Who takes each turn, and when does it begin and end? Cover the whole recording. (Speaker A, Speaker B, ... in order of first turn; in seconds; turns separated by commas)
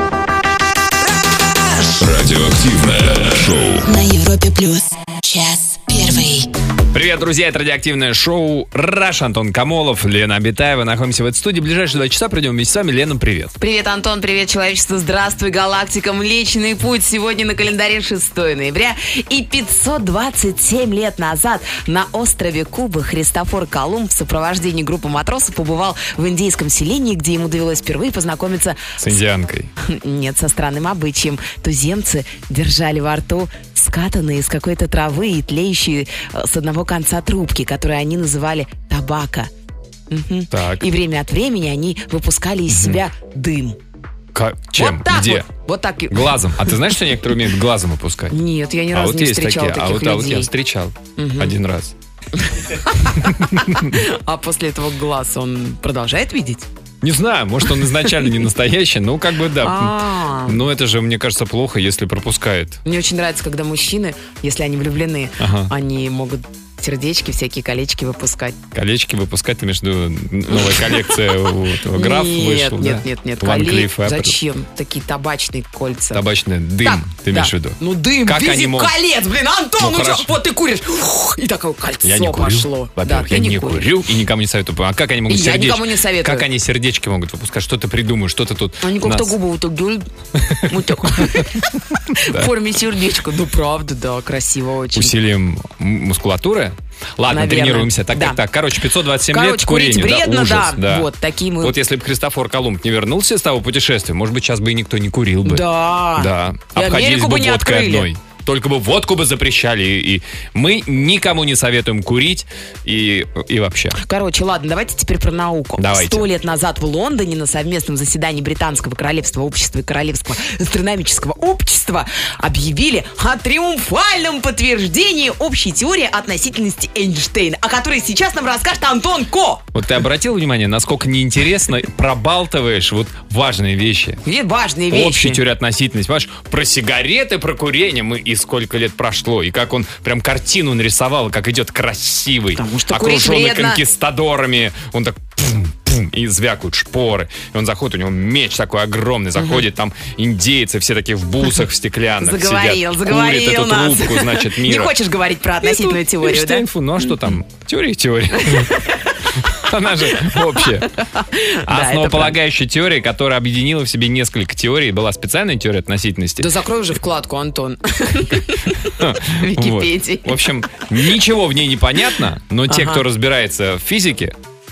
Speaker A: 1.7-3.9, Speaker B: 3.8-6.5, Speaker C: 6.9-13.5, Speaker D: 13.6-29.0, Speaker C: 29.0-29.7, Speaker D: 29.8-39.5, Speaker D: 40.1-43.8, Speaker C: 40.5-40.9, Speaker C: 42.7-43.0, Speaker C: 44.3-45.5, Speaker D: 44.8-46.8, Speaker C: 46.1-48.3, Speaker D: 48.3-50.5, Speaker C: 48.9-51.9, Speaker D: 51.2-51.5, Speaker D: 52.4-56.7, Speaker C: 53.2-54.0, Speaker C: 57.0-62.8, Speaker D: 59.6-60.6, Speaker D: 62.8-68.6, Speaker C: 65.4-65.7, Speaker C: 68.7-74.3, Speaker D: 70.7-71.2, Speaker D: 71.9-76.2, Speaker C: 76.1-79.0, Speaker D: 76.8-83.8, Speaker C: 79.8-80.3, Speaker C: 82.0-89.3, Speaker D: 85.3-86.5, Speaker D: 88.8-90.0, Speaker C: 90.4-91.6, Speaker D: 90.6-95.1, Speaker C: 92.2-92.5, Speaker C: 94.9-101.1, Speaker D: 97.3-98.4, Speaker D: 99.3-101.8, Speaker C: 101.6-114.0, Speaker D: 105.4-108.1, Speaker D: 114.0-129.6, Speaker C: 115.8-116.3, Speaker C: 129.7-134.2, Speaker D: 134.2-135.4, Speaker C: 134.9-154.9, Speaker D: 142.5-143.8, Speaker D: 149.3-149.7, Speaker D: 152.2-157.3, Speaker C: 155.6-160.9, Speaker D: 158.5-158.8, Speaker D: 160.2-162.4, Speaker C: 161.7-166.5, Speaker D: 166.4-170.8, Speaker C: 169.0-174.3, Speaker D: 172.7-173.0